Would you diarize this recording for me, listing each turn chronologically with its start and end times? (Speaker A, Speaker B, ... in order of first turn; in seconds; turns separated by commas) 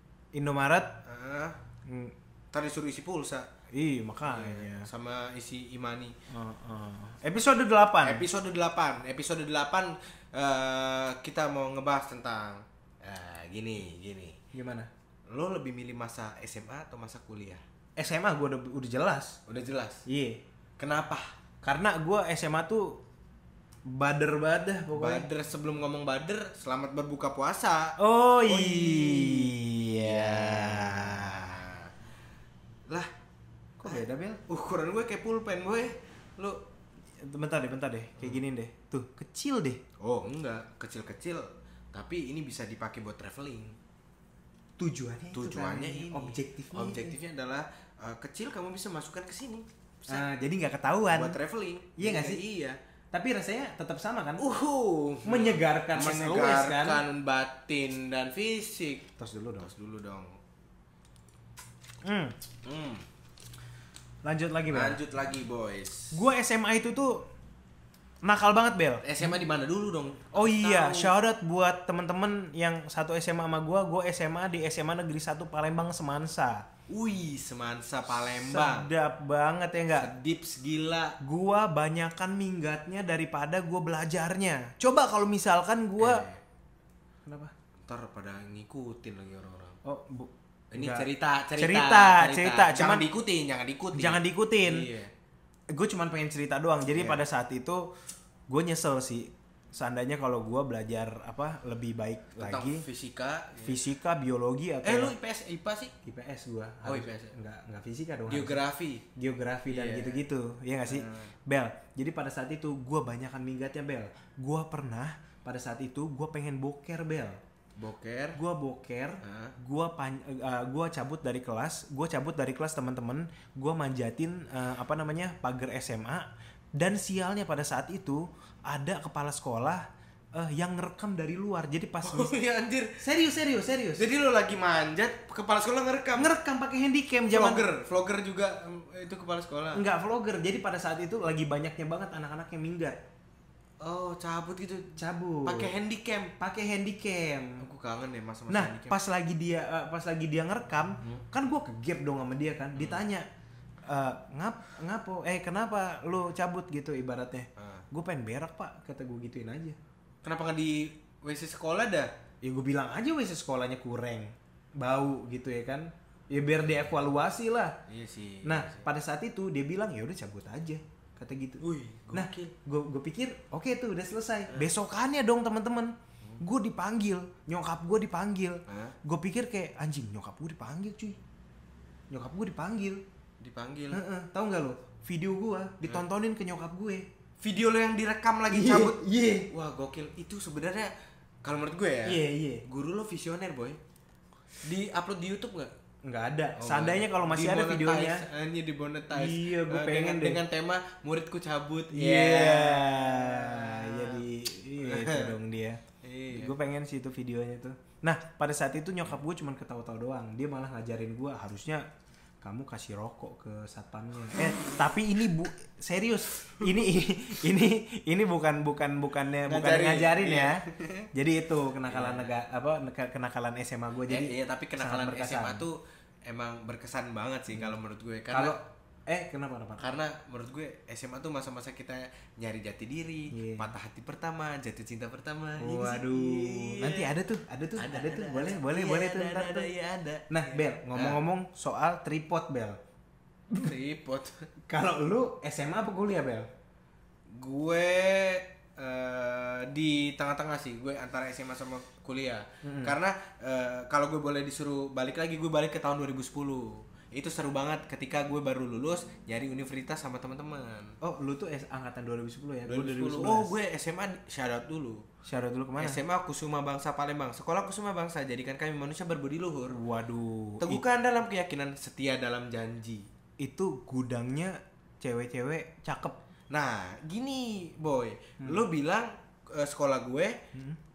Speaker A: 0.3-1.0, Speaker B: 1.1-1.6, Speaker A: 1.9-2.1, Speaker B: 2.5-3.5, Speaker A: 3.7-4.9, Speaker B: 4.3-6.2, Speaker A: 6.3-8.3, Speaker B: 8.0-14.4, Speaker A: 14.5-14.9, Speaker B: 15.3-17.6, Speaker A: 18.0-19.4, Speaker B: 19.5-20.0, Speaker A: 20.1-20.4, Speaker B: 20.8-21.4, Speaker A: 21.6-23.0, Speaker A: 23.9-25.3, Speaker B: 24.9-31.9, Speaker A: 28.0-31.6, Speaker A: 33.8-34.4, Speaker B: 33.9-36.6, Speaker A: 37.2-39.8, Speaker B: 40.0-43.8, Speaker A: 44.8-47.2, Speaker B: 45.3-50.2, Speaker A: 50.0-51.4, Speaker B: 51.1-52.8, Speaker A: 52.0-52.4, Speaker A: 53.1-54.5, Speaker B: 54.4-59.1, Speaker A: 55.2-57.0, Speaker A: 59.2-59.7, Speaker B: 59.6-60.4, Speaker A: 62.0-62.3, Speaker B: 62.6-63.0, Speaker A: 64.2-65.0, Speaker B: 64.7-66.2, Speaker A: 66.1-67.2, Speaker A: 68.2-69.1, Speaker B: 69.0-71.2, Speaker A: 70.3-76.7, Speaker B: 76.9-78.9, Speaker A: 78.2-80.1, Speaker B: 79.9-81.2, Speaker A: 81.2-86.2, Speaker B: 86.0-86.4, Speaker A: 87.3-87.5, Speaker B: 87.9-89.8, Speaker A: 89.8-93.1, Speaker B: 90.7-95.1, Speaker A: 93.9-94.9, Speaker A: 95.7-97.9, Speaker B: 96.9-97.2, Speaker A: 98.5-102.8, Speaker B: 102.4-103.8, Speaker A: 103.6-105.2, Speaker B: 104.8-105.9, Speaker A: 106.0-108.6, Speaker B: 106.8-107.3, Speaker B: 108.3-109.0, Speaker A: 109.2-117.4, Speaker B: 109.7-110.2, Speaker B: 110.8-111.3, Speaker B: 117.8-118.4, Speaker A: 118.4-132.3, Speaker B: 119.2-119.5, Speaker B: 132.0-133.0, Speaker A: 133.0-134.1, Speaker B: 134.0-136.3, Speaker A: 136.2-137.7, Speaker B: 137.3-139.8, Speaker A: 139.7-143.0, Speaker B: 143.8-146.4, Speaker A: 145.0-145.7, Speaker A: 146.4-147.7, Speaker B: 147.6-149.0, Speaker A: 148.5-153.3, Speaker B: 152.8-153.0, Speaker A: 153.9-159.8, Speaker B: 157.6-157.8, Speaker B: 160.2-162.1, Speaker A: 162.4-167.8, Speaker B: 167.9-168.8, Speaker A: 168.4-171.6, Speaker B: 171.6-172.5, Speaker A: 172.1-181.2, Speaker B: 174.5-174.7, Speaker B: 178.7-178.9, Speaker A: 182.1-183.0, Speaker B: 183.4-184.0, Speaker A: 183.9-187.1, Speaker B: 187.4-190.9, Speaker A: 188.5-189.5, Speaker B: 191.4-193.8, Speaker A: 192.1-192.7, Speaker B: 194.6-195.7, Speaker A: 196.0-198.2, Speaker B: 196.6-204.2, Speaker A: 199.1-200.4, Speaker A: 201.9-211.8, Speaker B: 204.8-205.4, Speaker B: 206.0-206.5, Speaker A: 212.4-225.7, Speaker B: 219.5-221.1, Speaker B: 221.8-222.3, Speaker B: 224.1-228.6, Speaker A: 228.3-230.0, Speaker B: 229.8-237.1, Speaker A: 233.3-233.7, Speaker A: 235.6-239.7, Speaker B: 237.8-241.2, Speaker A: 240.3-242.8, Speaker B: 243.6-244.5, Speaker A: 244.7-246.5, Speaker B: 247.3-261.0, Speaker A: 252.6-253.0, Speaker A: 261.0-263.6, Speaker B: 262.7-265.0, Speaker A: 265.3-266.0, Speaker B: 265.8-269.8, Speaker A: 269.7-270.8, Speaker B: 270.6-273.1, Speaker A: 273.4-276.2, Speaker B: 276.5-280.4